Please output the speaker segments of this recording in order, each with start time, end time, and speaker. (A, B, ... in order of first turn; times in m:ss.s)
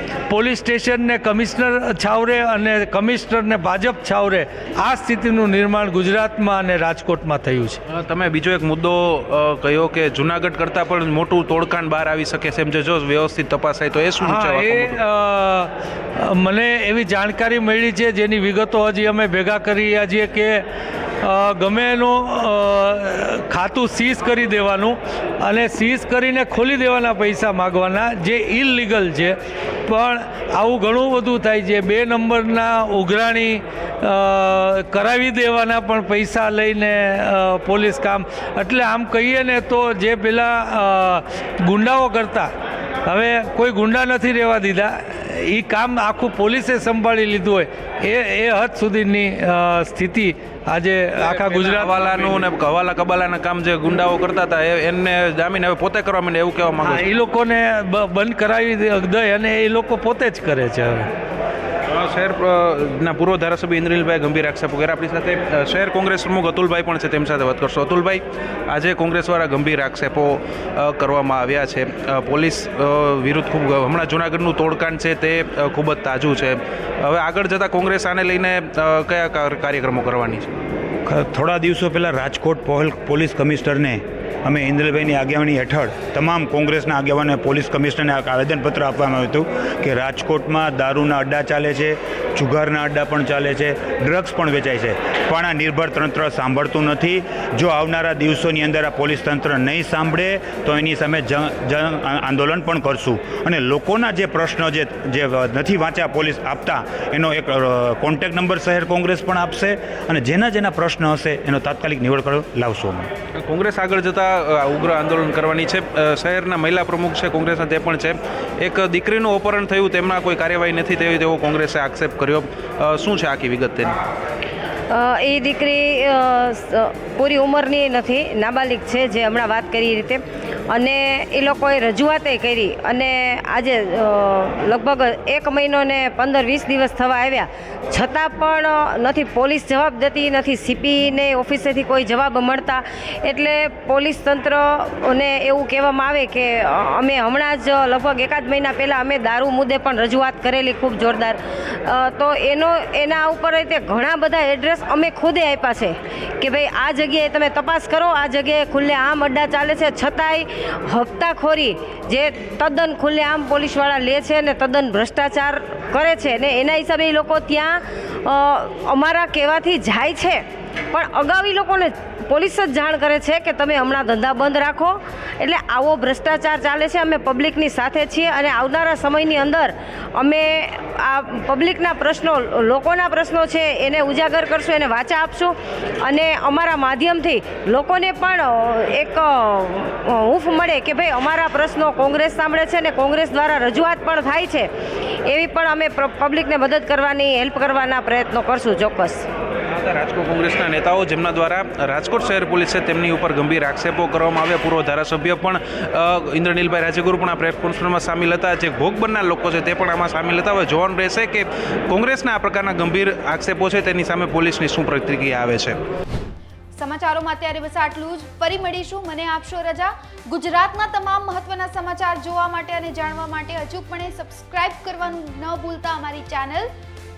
0:00.3-0:07.8 A
0:07.9-0:15.0 B
0:14.2-0:20.6 A
0:21.2-0:42.5 A
0:43.0-0:52.4 A
0:51.2-0:57.0 B
0:56.8-1:01.1 A
1:01.9-1:20.5 B
1:21.0-1:53.1 C
1:53.4-2:04.0 B
2:04.9-3:14.7 D
3:15.2-3:19.3 D
3:19.7-3:35.8 B
3:36.8-3:46.7 E